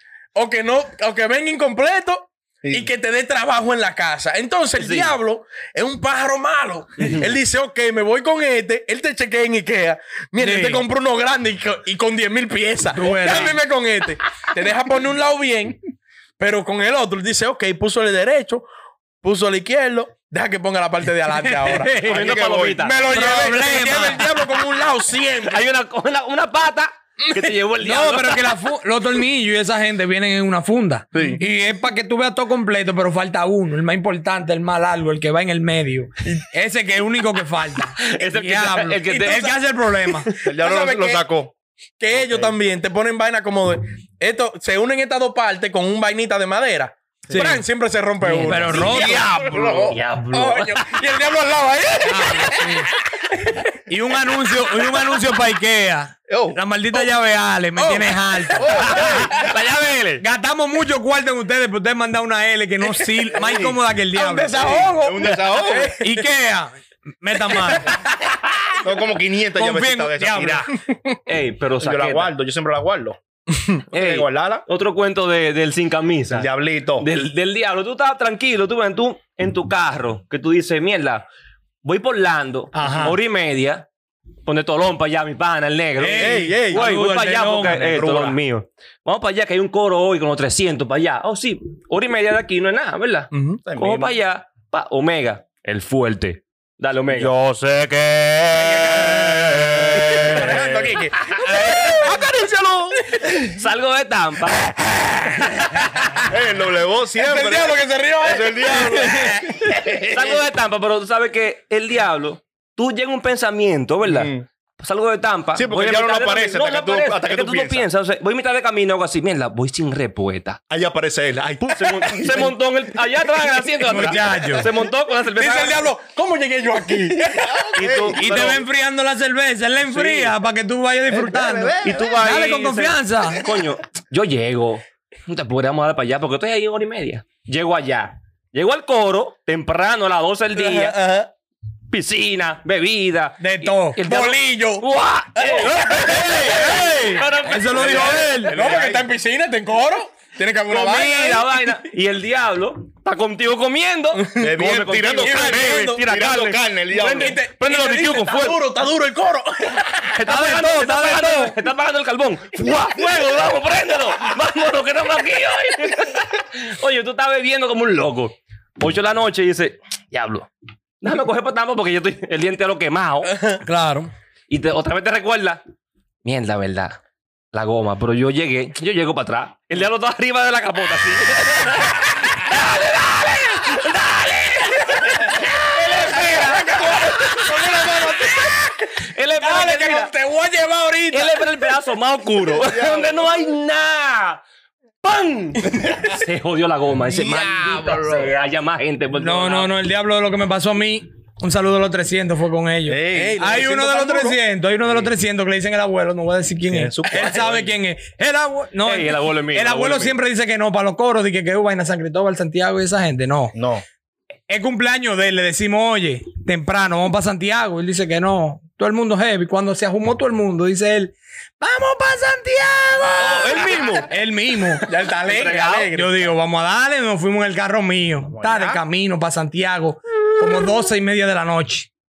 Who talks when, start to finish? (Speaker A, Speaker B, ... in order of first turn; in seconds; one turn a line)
Speaker A: 0.3-15.8
Speaker B: 2.6-2.9
Speaker C: 4.8-5.2
Speaker C: 7.0-7.2
Speaker D: 10.4-10.8
Speaker C: 13.0-13.6
Speaker A: 16.4-18.6
Speaker A: 19.2-22.0
Speaker D: 21.4-21.8
Speaker C: 21.7-23.6
Speaker B: 22.0-22.9
Speaker A: 22.8-25.6
Speaker D: 23.1-24.3
Speaker C: 25.4-28.6
Speaker D: 27.8-40.3
Speaker B: 31.1-31.4
Speaker C: 38.0-39.4
Speaker A: 39.0-39.5
Speaker B: 40.4-41.5
Speaker A: 40.5-41.2
Speaker A: 42.0-53.7
Speaker B: 42.1-42.5
Speaker D: 47.3-47.6
Speaker D: 48.2-49.3
Speaker C: 48.3-48.7
Speaker B: 48.6-50.0
Speaker C: 49.9-51.0
Speaker D: 50.1-50.6
Speaker D: 52.0-52.9
Speaker D: 53.9-59.3
Speaker B: 56.3-56.6
Speaker A: 57.8-59.2
Speaker B: 58.6-59.4
Speaker C: 58.8-60.2
Speaker D: 60.2-65.0
Speaker B: 63.3-63.8
Speaker A: 64.1-66.2
Speaker B: 65.0-65.9
Speaker D: 66.0-68.0
Speaker A: 67.4-68.6
Speaker B: 68.8-70.7
Speaker D: 69.5-70.8
Speaker A: 70.9-71.2
Speaker C: 71.3-72.3
Speaker B: 71.8-73.2
Speaker A: 73.5-73.8
Speaker B: 73.9-74.7
Speaker C: 73.9-81.3
Speaker B: 76.3-77.1
Speaker C: 81.8-83.9
Speaker D: 82.7-83.2
Speaker C: 84.5-97.3
Speaker D: 86.0-88.2
Speaker A: 86.2-86.9
Speaker B: 88.0-88.4
Speaker A: 93.3-93.6
Speaker B: 93.6-94.2
Speaker B: 97.1-103.5
Speaker A: 98.5-102.2
Speaker C: 100.0-100.6
Speaker C: 101.2-101.6
Speaker C: 103.5-105.5
Speaker A: 105.6-106.2
Speaker B: 106.2-110.0
Speaker A: 107.2-109.9
Speaker C: 108.7-120.6
Speaker B: 114.0-114.4
Speaker B: 115.5-117.9
Speaker B: 120.7-122.6
Speaker C: 121.7-125.8
Speaker D: 123.8-124.7
Speaker A: 125.1-127.6
Speaker B: 127.1-128.6
Speaker C: 127.8-128.6
Speaker D: 128.1-133.4
Speaker C: 129.8-130.3
Speaker B: 131.1-132.3
Speaker C: 131.8-141.0
Speaker B: 133.2-133.7
Speaker A: 140.5-141.3
Speaker C: 141.9-148.6
Speaker D: 143.4-144.0
Speaker A: 144.0-146.6
Speaker D: 145.8-148.5
Speaker B: 147.8-149.1
Speaker A: 148.5-151.8
Speaker C: 150.7-156.7
Speaker A: 154.1-154.6
Speaker B: 154.4-158.5
Speaker A: 155.2-156.1
Speaker A: 156.9-160.1
Speaker C: 157.8-158.5
Speaker C: 160.1-170.5
Speaker D: 160.2-161.5
Speaker C: 171.0-173.3
Speaker A: 173.2-174.1
Speaker C: 174.5-175.6
Speaker C: 176.2-177.0
Speaker C: 177.5-190.1
Speaker A: 185.1-188.7
Speaker A: 189.3-191.5
Speaker C: 191.1-194.4
Speaker B: 192.5-193.4
Speaker C: 195.0-199.7
Speaker B: 197.1-198.3
Speaker D: 199.1-213.5
Speaker B: 202.8-203.4
Speaker A: 203.1-204.4
Speaker B: 206.7-207.4
Speaker A: 207.1-207.4
Speaker C: 207.3-207.7
Speaker C: 208.8-210.2
Speaker B: 213.5-213.8
Speaker D: 214.5-224.9
Speaker C: 223.2-224.1
Speaker A: 223.6-224.0
Speaker A: 224.8-226.3
Speaker C: 225.2-225.9
Speaker D: 225.9-231.9
Speaker B: 228.2-228.8